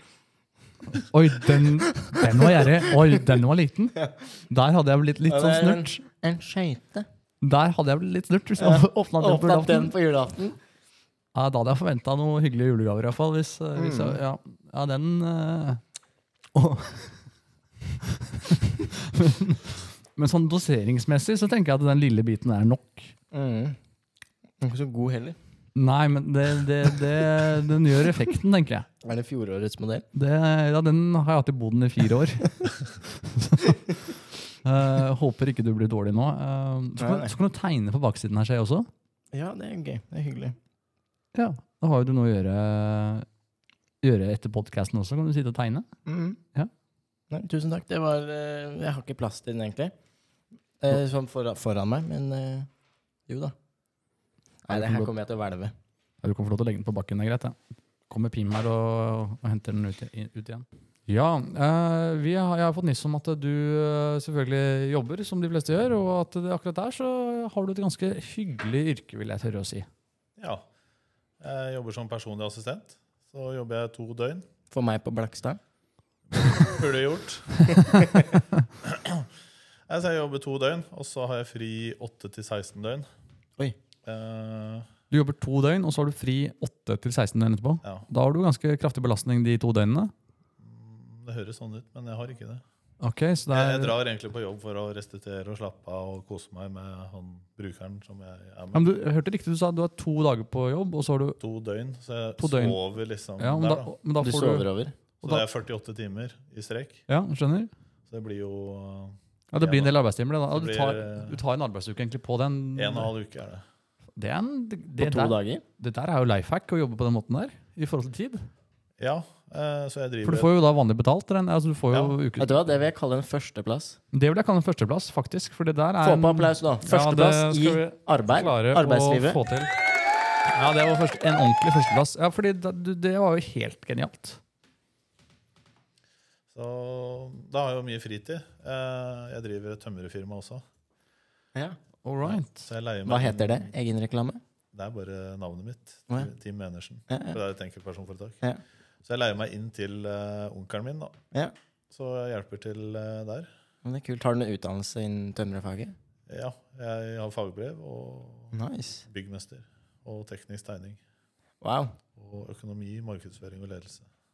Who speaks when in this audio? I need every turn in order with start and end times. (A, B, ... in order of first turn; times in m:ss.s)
0:00.9-0:04.0 A
0:01.6-0:03.2 B
0:04.5-0:06.0 A
0:05.3-0:07.1 B
0:07.4-0:09.9 A
0:08.6-0:10.6 B
0:11.3-0:15.8 A
0:13.8-0:14.2 B
0:16.5-0:17.2 A
0:18.0-0:23.1 A
0:23.3-0:23.8 B
0:24.6-0:25.4 B
0:25.7-0:28.9 A
0:29.0-0:30.0 B
0:30.1-0:38.9 A
0:37.0-0:37.4 B
0:39.3-0:40.6 B
0:41.3-0:43.2 A
0:44.0-0:45.9 A
0:46.0-0:46.4 B
0:47.3-0:49.9 B
0:50.8-0:52.7 B
0:53.3-0:53.5 B
0:54.7-0:55.7 B
0:54.7-0:55.1 A
0:56.2-0:57.6 A
0:58.1-1:09.9 A
1:10.4-1:10.6 C
1:11.4-1:14.4 C
1:14.7-1:15.6 B
1:16.3-1:17.7 C
1:17.7-1:18.3 B
1:18.8-1:19.3 C
1:19.9-1:23.0 C
1:24.0-1:24.9 C
1:25.1-1:30.1 A
1:30.6-1:32.6 C
1:33.0-1:34.0 A
1:33.5-1:38.8 C
1:38.7-1:41.4 A
1:41.4-1:43.9 C
1:42.4-1:42.8 A
1:43.4-1:44.7 A
1:44.2-1:44.9 B
1:45.2-1:47.0 C
1:47.1-1:47.7 A
1:48.1-1:49.9 C
1:49.5-1:53.1 A
1:50.5-1:51.4 C
1:52.8-1:53.6 C
1:54.2-1:58.5 A
1:55.0-1:55.6 B
1:59.0-2:00.5 C
2:00.2-2:02.5 A
2:01.9-2:02.2 C
2:02.4-2:04.0 B
2:04.1-2:09.7 A
2:06.0-2:09.4 B
2:10.5-2:14.4 A
2:16.5-2:20.6 C
2:22.0-2:22.6 A
2:22.2-2:23.7 C
2:23.0-2:24.4 B
2:24.7-2:28.4 C
2:27.1-2:27.4 B
2:29.0-2:31.2 C
2:31.9-2:33.5 C
2:33.8-2:35.9 B
2:36.3-2:38.5 C
2:38.5-2:39.0 B
2:39.0-2:41.0 C
2:41.6-2:42.0 B
2:42.2-2:44.1 C